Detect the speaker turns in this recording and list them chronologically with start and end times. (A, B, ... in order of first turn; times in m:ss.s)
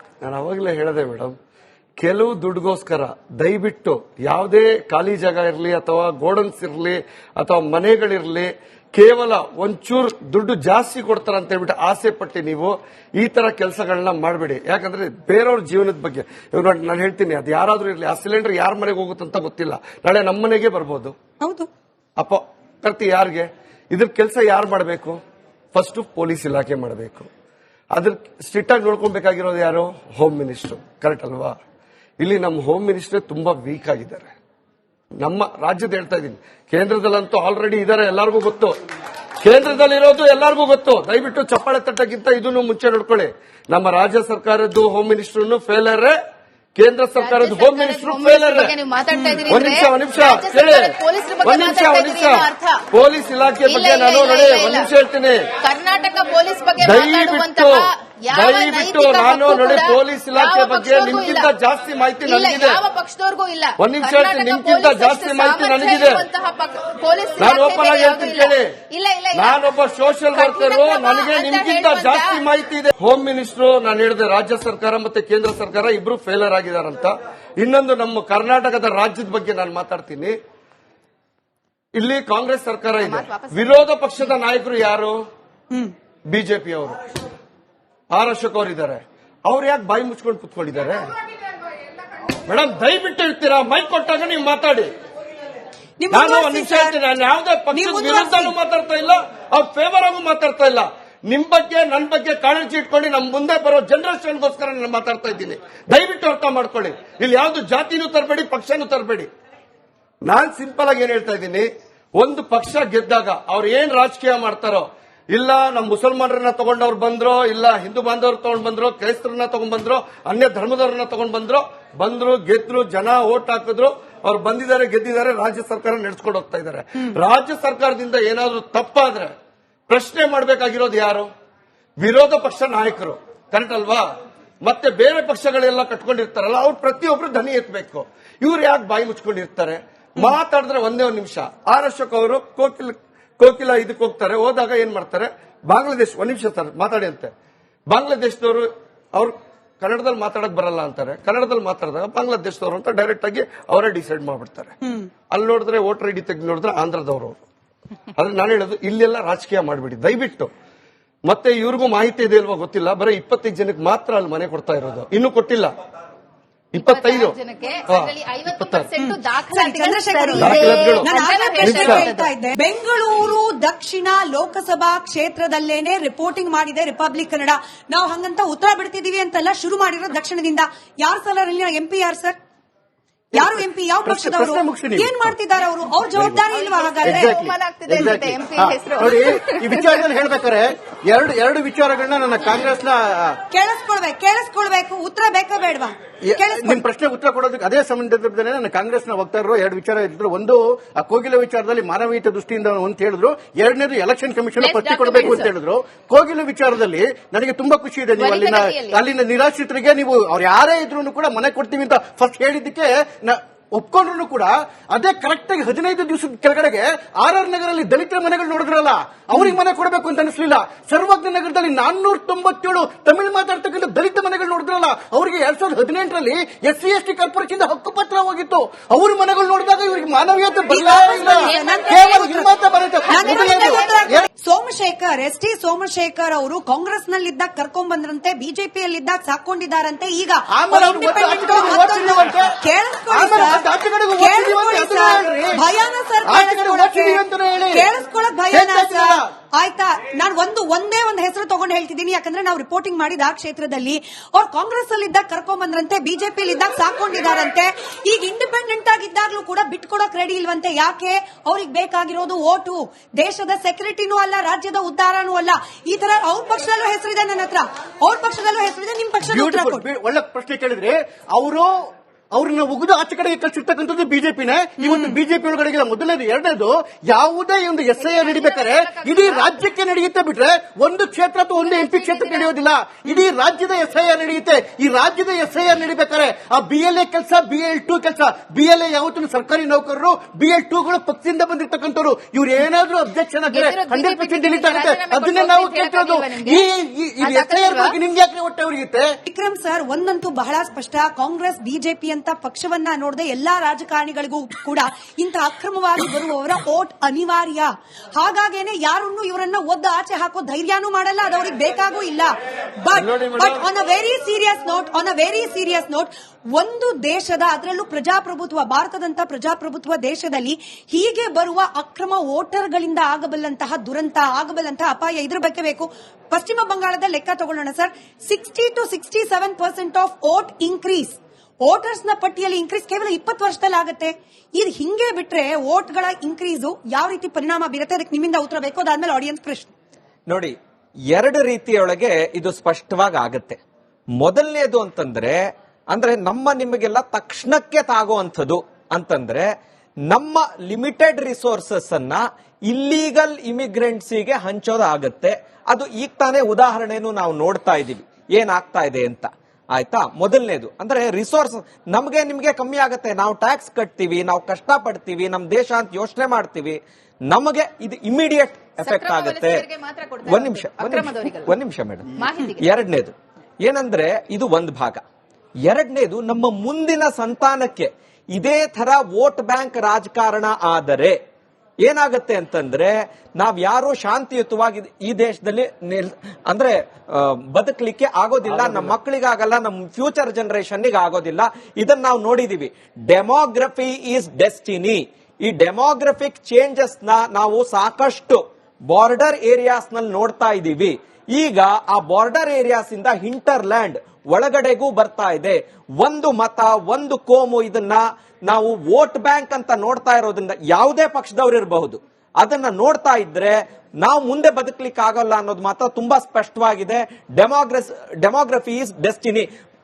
0:00.2-0:01.4 A
0:02.0-0:21.2 A
0:21.4-0:21.7 B
0:22.2-0:25.2 A
0:25.8-0:27.3 A
0:27.9-0:31.6 A
0:32.2-0:34.3 A
0:35.2-0:38.7 A
0:39.4-0:46.2 A
0:46.8-0:48.7 A
0:47.2-0:52.8 C
0:49.5-0:55.5 A
0:53.6-0:54.9 C
0:55.6-1:01.5 C
0:56.8-1:02.8 A
1:02.2-1:09.7 C
1:03.8-1:06.3 A
1:07.4-1:08.7 A
1:09.3-1:20.4 A
1:10.3-1:12.4 C
1:22.0-1:25.2 A
1:23.0-1:24.1 C
1:26.3-1:27.0 A
1:28.1-1:31.0 A
1:32.5-1:34.9 A
1:36.0-1:37.0 B
1:36.1-1:49.3 A
1:37.7-1:38.6 B
1:50.2-2:09.3 A
2:09.9-2:11.3 A
2:12.0-2:14.0 A
2:14.6-2:27.3 A
2:27.9-2:34.8 A
2:35.3-2:37.4 A
2:38.2-2:40.5 A
2:41.3-2:45.7 A
2:46.7-2:47.4 A
2:46.8-2:52.3 C
2:47.9-2:48.9 A
2:49.0-3:02.4 B
2:50.4-2:52.1 A
3:03.3-3:05.3 D
3:03.4-3:07.4 B
3:06.2-3:06.4 D
3:06.5-3:09.9 C
3:07.0-3:13.4 D
3:13.5-3:16.8 B
3:16.2-3:54.3 D
3:24.6-3:25.5 C
3:28.2-3:29.0 C
3:50.7-3:52.5 B
3:51.4-3:52.5 C
3:53.1-4:29.8 B
3:53.2-3:53.8 C
4:00.5-4:02.6 D
4:03.1-4:05.6 D
4:06.2-4:07.9 D
4:08.5-4:09.2 D
4:29.2-4:59.2 D
4:34.8-4:35.1 B
4:38.0-4:39.6 C
4:41.6-4:42.5 C
4:53.5-4:56.7 C
4:57.2-4:58.0 C
4:59.3-5:39.7 B
5:13.0-5:13.6 A
5:40.3-5:40.6 E
5:41.1-5:43.6 E
5:44.2-5:49.5 E
5:50.1-6:09.6 E
6:08.8-6:11.5 C
6:10.3-6:15.0 E
6:12.2-6:12.7 C
6:15.7-6:21.2 E
6:21.8-6:59.5 E
6:28.5-6:29.0 A